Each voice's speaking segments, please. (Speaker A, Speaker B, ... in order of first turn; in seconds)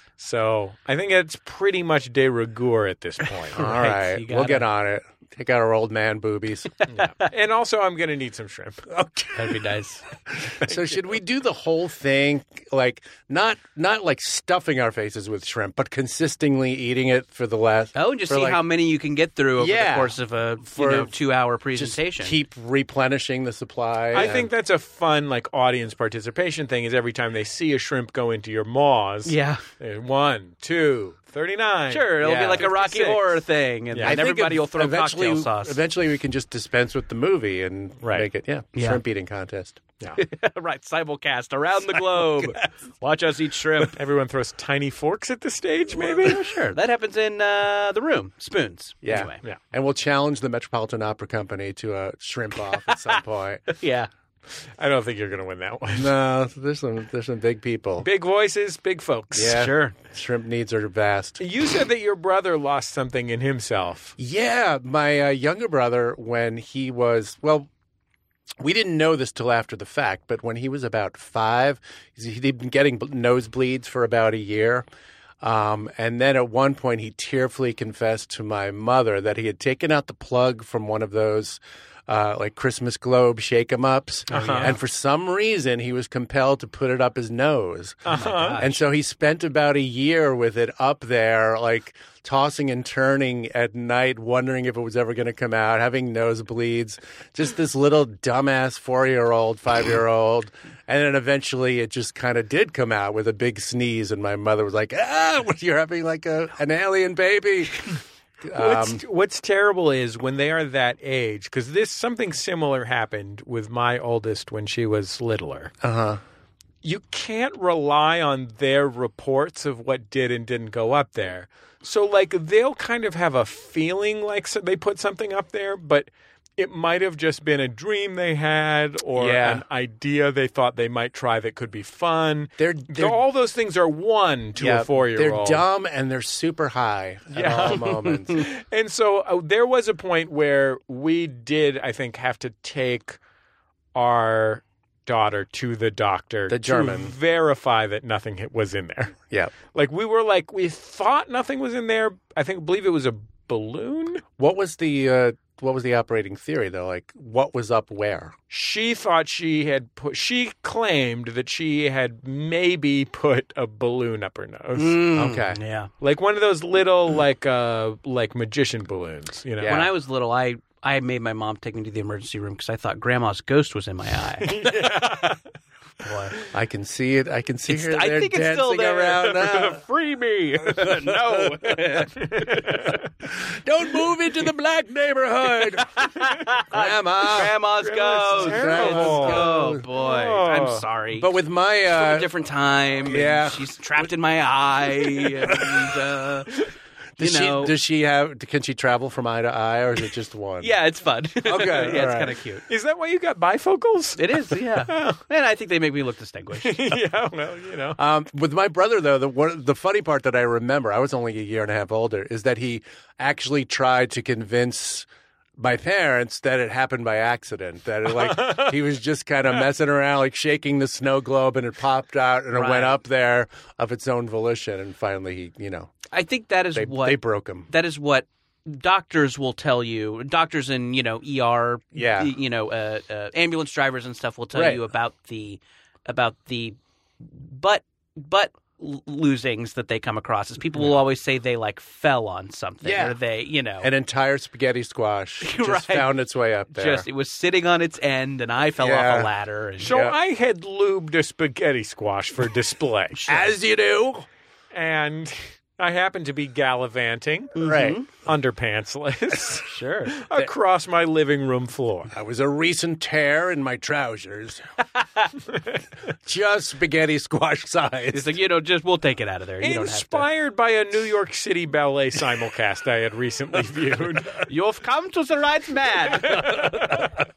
Speaker A: 0.2-3.7, 6.9-8.9, 10.6-11.0, 24.1-33.4, 33.9-34.2, 38.0-38.3, 43.9-46.4, 54.8-56.1, 58.0-59.7, 61.4-64.2, 84.3-84.8, 88.1-88.7, 108.5-115.7, 116.8-135.6, 137.3-143.2, 143.9-149.2, 149.7-154.2, 158.5-165.1, 166.0-169.8, 174.4-175.4, 182.4-183.0, 187.8-190.8, 202.7-205.2, 206.6-208.0, 218.2-218.8, 249.8-253.3, 254.7-257.6, 258.2-262.1, 269.6-274.5, 276.2-277.1
Speaker B: 3.5-4.7, 9.3-10.0, 17.9-22.4, 29.3-29.6, 31.9-35.8, 38.8-39.0, 40.2-44.0, 46.0-49.4, 53.7-54.1, 59.4-60.0, 84.3-84.7, 88.1-88.8, 164.8-165.9, 169.7-174.5, 176.0-176.4, 177.7-182.8, 185.9-191.3, 191.9-196.5, 197.2-197.8, 200.6-202.6, 204.2-206.8, 222.5-223.0, 226.1-243.9, 245.4-246.1, 246.7-249.9, 253.2-253.5, 257.6-258.1, 259.6-260.5, 265.0-265.2, 268.1-270.3, 274.4-276.8
Speaker C: 3.5-6.7, 8.9-9.6, 10.4-18.6, 19.6-20.2, 20.7-21.1, 21.7-24.5, 32.3-32.7, 34.0-39.8, 49.0-53.6, 55.9-58.1, 59.3-61.4, 64.2-67.7, 68.6-74.8, 75.4-109.0, 115.8-116.2, 129.2-129.6, 132.6-133.2, 134.6-138.5, 146.5-147.1, 154.4-158.3, 165.2-165.6, 169.6-169.9, 176.5-179.8, 180.7-182.2, 183.3-186.1, 186.7-187.5, 188.3-189.8, 191.1-192.3, 193.1-193.7, 197.2-200.7, 201.4-202.3, 208.0-225.9, 226.7-227.7, 231.9-232.3, 234.5-234.8, 242.8-243.2, 243.8-247.1, 248.8-250.2, 253.3-254.3, 257.6-258.0, 262.1-264.7, 266.2-268.3